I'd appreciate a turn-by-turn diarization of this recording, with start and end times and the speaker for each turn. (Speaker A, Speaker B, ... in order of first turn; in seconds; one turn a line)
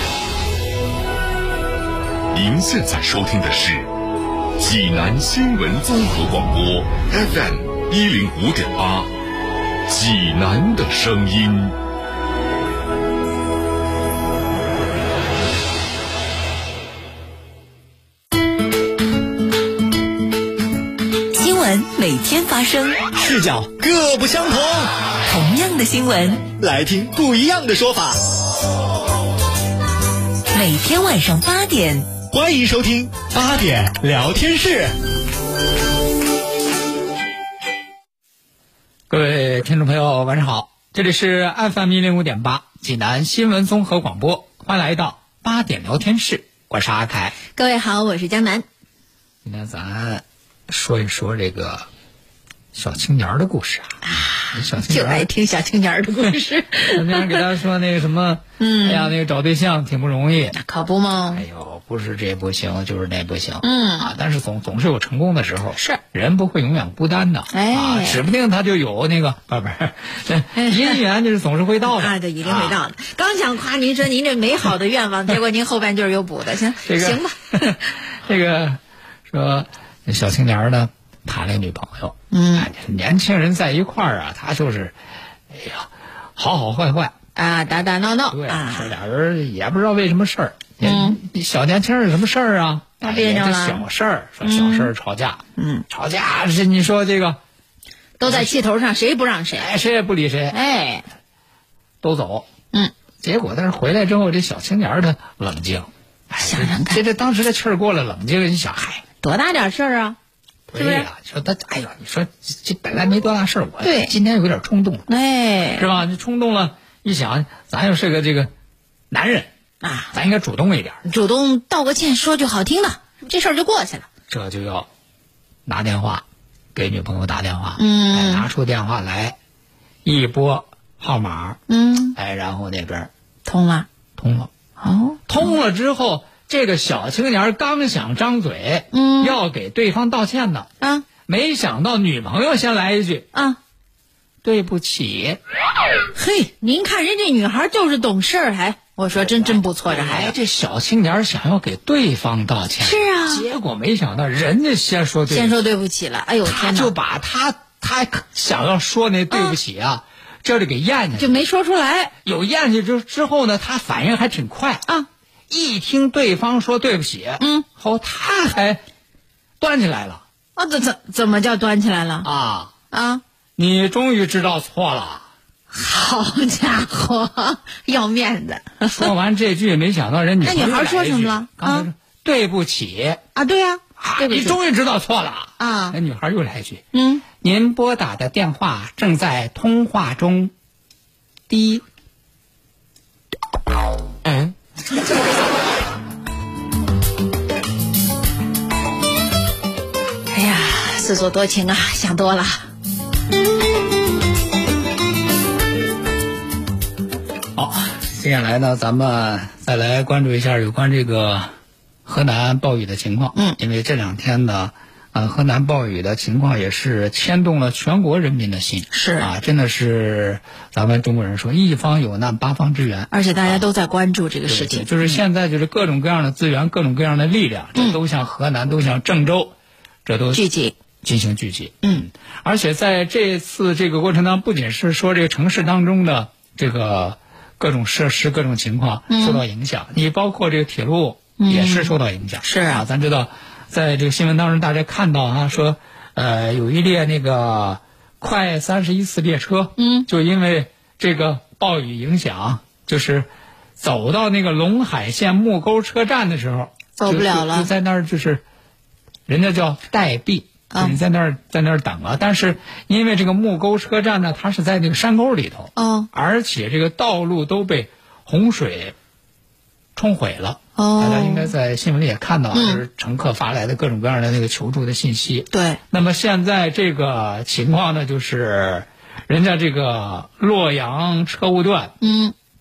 Speaker A: 2.3-3.9
Speaker A: 4.6-9.1
Speaker A: 9.9-11.8
Speaker B: 21.3-23.1
Speaker C: 23.2-24.9
Speaker B: 25.3-26.5
Speaker C: 26.6-28.2
Speaker B: 30.5-32.1
Speaker C: 32.3-34.9
Speaker D: 39.1-47.4
Speaker E: 47.5-48.6
Speaker D: 49.5-51.9
Speaker D: 52.7-54.0
Speaker E: 54.0-57.4
Speaker D: 54.5-55.3
Speaker D: 56.9-60.6
Speaker E: 58.6-59.1
Speaker E: 60.5-61.5
Speaker D: 61.3-72.8
Speaker E: 63.6-64.1
Speaker E: 67.5-68.2
Speaker E: 70.5-71.0
Speaker E: 71.9-77.7
Speaker D: 76.8-85.0
Speaker E: 82.3-82.7
Speaker D: 85.5-87.2
Speaker E: 87.4-88.9
Speaker D: 88.3-97.4
Speaker E: 90.8-91.2
Speaker E: 93.0-93.9
Speaker E: 94.4-94.9
Speaker E: 95.6-95.8
Speaker E: 98.2-99.7
Speaker D: 98.2-98.5
Speaker D: 99.6-100.6
Speaker E: 100.5-101.0
Speaker D: 102.0-102.5
Speaker D: 103.2-109.0
Speaker E: 106.4-107.0
Speaker E: 109.2-110.2
Speaker D: 110.7-115.1
Speaker E: 110.8-111.1
Speaker E: 113.8-114.1
Speaker E: 115.1-115.9
Speaker D: 115.8-118.5
Speaker D: 119.1-119.5
Speaker E: 119.8-120.1
Speaker D: 120.1-121.0
Speaker E: 121.0-124.1
Speaker D: 124.3-124.9
Speaker D: 125.7-129.4
Speaker E: 127.8-128.5
Speaker D: 130.1-131.6
Speaker E: 131.7-132.2
Speaker D: 132.2-133.1
Speaker E: 133.4-133.9
Speaker D: 134.2-134.5
Speaker E: 134.8-135.5
Speaker D: 135.3-140.7
Speaker E: 138.9-139.4
Speaker E: 140.8-141.1
Speaker D: 141.3-143.3
Speaker D: 144.4-145.4
Speaker E: 146.2-150.3
Speaker D: 149.2-155.6
Speaker E: 152.8-153.5
Speaker E: 155.3-156.9
Speaker D: 156.4-161.4
Speaker E: 161.2-162.1
Speaker D: 162.2-164.8
Speaker D: 165.5-168.8
Speaker E: 167.4-167.7
Speaker D: 169.6-170.2
Speaker E: 170.6-172.3
Speaker D: 172.2-172.7
Speaker E: 172.9-173.2
Speaker D: 173.6-175.3
Speaker E: 175.7-179.1
Speaker D: 178.8-183.2
Speaker E: 180.4-181.9
Speaker E: 183.3-184.6
Speaker D: 184.0-186.8
Speaker E: 185.6-186.0
Speaker E: 186.9-187.2
Speaker D: 187.3-190.5
Speaker D: 191.5-191.8
Speaker E: 200.3-202.7
Speaker D: 207.6-211.5
Speaker D: 212.1-223.6
Speaker E: 218.9-219.3
Speaker E: 223.1-225.2
Speaker D: 224.5-230.4
Speaker E: 230.3-230.8
Speaker D: 231.0-258.4
Speaker E: 231.8-232.1
Speaker E: 239.1-239.4
Speaker E: 241.4-242.8
Speaker E: 249.8-250.1
Speaker E: 257.0-257.7
Speaker D: 259.3-268.9
Speaker E: 260.7-261.0
Speaker E: 265.8-266.1
Speaker D: 270.0-281.9
Speaker E: 270.8-271.5
Speaker E: 272.5-272.8
Speaker E: 275.5-275.8
Speaker E: 282.0-282.4